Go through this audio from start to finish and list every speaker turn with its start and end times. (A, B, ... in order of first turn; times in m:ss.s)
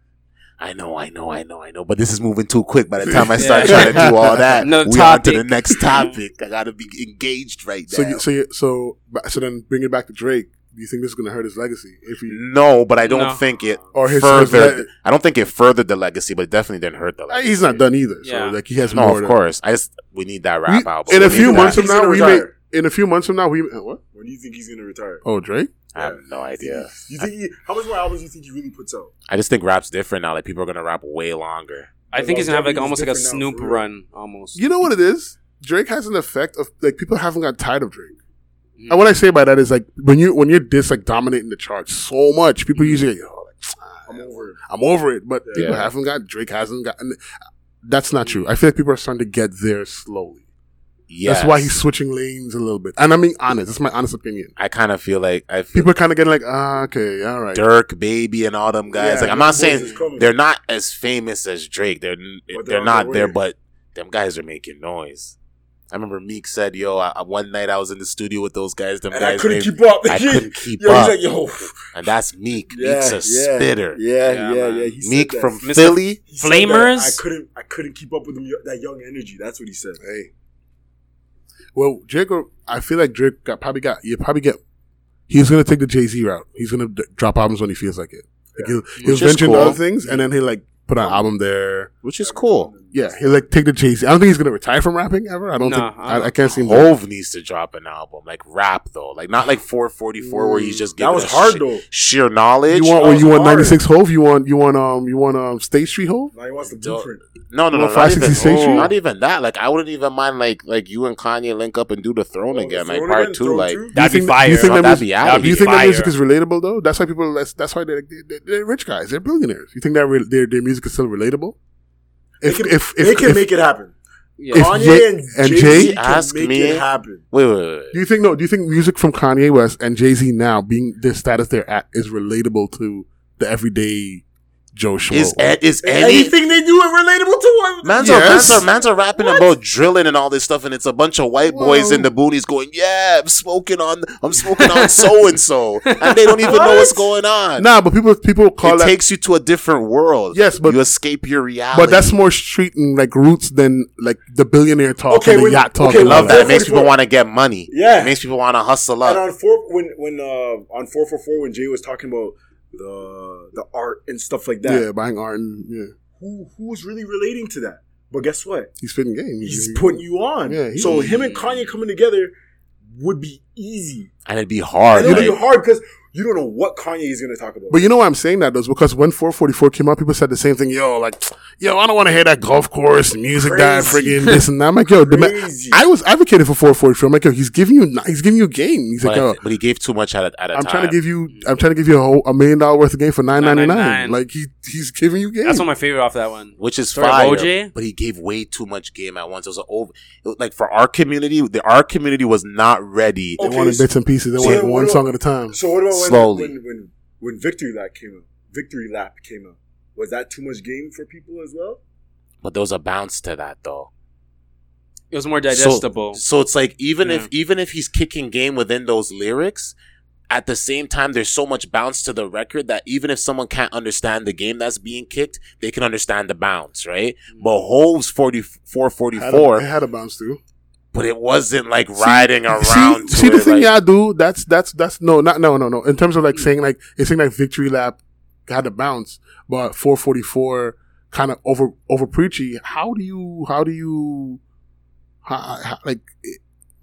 0:00.6-0:08.2 A
0:03.0-0:04.7 B
0:03.4-0:06.1 C
0:07.9-0:12.4 B
0:12.3-0:17.8 A
0:13.0-0:13.4 C
0:13.6-0:14.0 D
0:13.9-0:14.9 B
0:17.3-0:19.4 B
0:18.2-0:18.6 C
0:18.9-0:21.9 A
0:20.6-0:24.0 B
0:21.1-0:22.5 D
0:24.1-0:25.2 D
0:25.2-0:25.7 B
0:25.9-0:27.3 A
0:25.9-0:29.1 D
0:29.3-0:31.9 A
0:32.1-0:33.8 D
0:32.1-0:34.6 C
0:34.5-0:38.2 B
0:38.8-0:39.0 C
0:38.9-0:47.2 B
0:42.8-0:43.0 C
0:44.1-0:44.6 D
0:45.4-0:45.9 D
0:45.6-0:45.9 A
0:47.8-0:50.4 B
0:48.2-0:48.5 C
0:51.1-0:51.7 A
0:51.2-0:54.5 B
0:54.6-0:55.9 A
0:55.7-0:57.6 B
0:57.5-1:05.3 A
0:58.9-1:00.0 B
0:58.9-1:00.3 D
1:02.5-1:03.4 D
1:05.9-1:11.2 A
1:09.1-1:11.9 D
1:11.9-1:14.0 A
1:12.7-1:15.6 D
1:14.2-1:14.9 C
1:15.0-1:16.2 A
1:15.6-1:17.2 C
1:16.3-1:20.0 D
1:20.0-1:20.3 B
1:21.7-1:24.6 B
1:25.3-1:31.9 B
1:28.5-1:28.8 D
1:29.0-1:29.8 A
1:32.0-1:32.7 A
1:32.2-1:33.4 D
1:32.9-1:36.9 B
1:35.6-1:36.4 C
1:36.5-1:43.1 A
1:40.2-1:40.9 B
1:41.0-1:41.8 D
1:42.7-1:46.3 B
1:42.9-1:43.8 D
1:46.3-1:47.2 D
1:46.7-1:53.8 A
1:47.7-1:48.9 B
1:48.3-1:48.9 C
1:52.5-1:53.9 D
1:53.9-2:01.6 B
1:53.9-1:56.1 C
1:54.5-1:55.7 A
2:02.4-2:03.4 B
2:02.4-2:03.9 D
2:04.4-2:04.8 C
2:04.5-2:05.9 B
2:04.5-2:07.2 D
2:05.6-2:08.0 A
2:07.9-2:15.6 B
2:15.1-2:16.3 A
2:15.8-2:19.5 D
2:17.8-2:27.7 A
2:18.0-2:18.6 B
2:21.4-2:22.1 B
2:24.5-2:25.2 C
2:25.9-2:26.6 C
2:26.4-2:27.0 D
2:27.6-2:29.0 B
2:28.6-2:32.1 A
2:30.3-2:30.8 B
2:31.7-2:36.6 B
2:35.1-2:36.9 D
2:35.9-2:39.2 A
2:37.7-2:38.2 D
2:39.0-2:44.8 D
2:44.6-2:45.9 B
2:46.2-2:48.7 D
2:48.8-2:51.2 B
2:49.4-2:52.3 D
2:50.8-2:51.7 C
2:52.9-2:54.1 D
2:54.2-2:55.4 A
2:54.9-2:57.8 D
2:55.0-2:55.3 B
2:57.7-3:09.4 B
3:03.3-3:05.8 D
3:09.0-3:11.0 A
3:10.5-3:15.7 B
3:11.3-3:11.6 C
3:13.3-3:14.2 C
3:15.4-3:17.7 C
3:16.6-3:23.4 A
3:23.4-3:31.8 D
3:23.4-3:25.6 B
3:24.4-3:24.7 A
3:25.9-3:26.5 A
3:32.4-3:33.9 A
3:35.1-3:36.2 C
3:35.5-3:39.7 A
3:37.0-3:37.3 C
3:40.3-3:49.6 A
3:47.3-3:47.7 C
3:49.1-3:50.4 B
3:50.9-3:53.7 A
3:52.0-4:04.4 B
4:05.2-4:06.4 B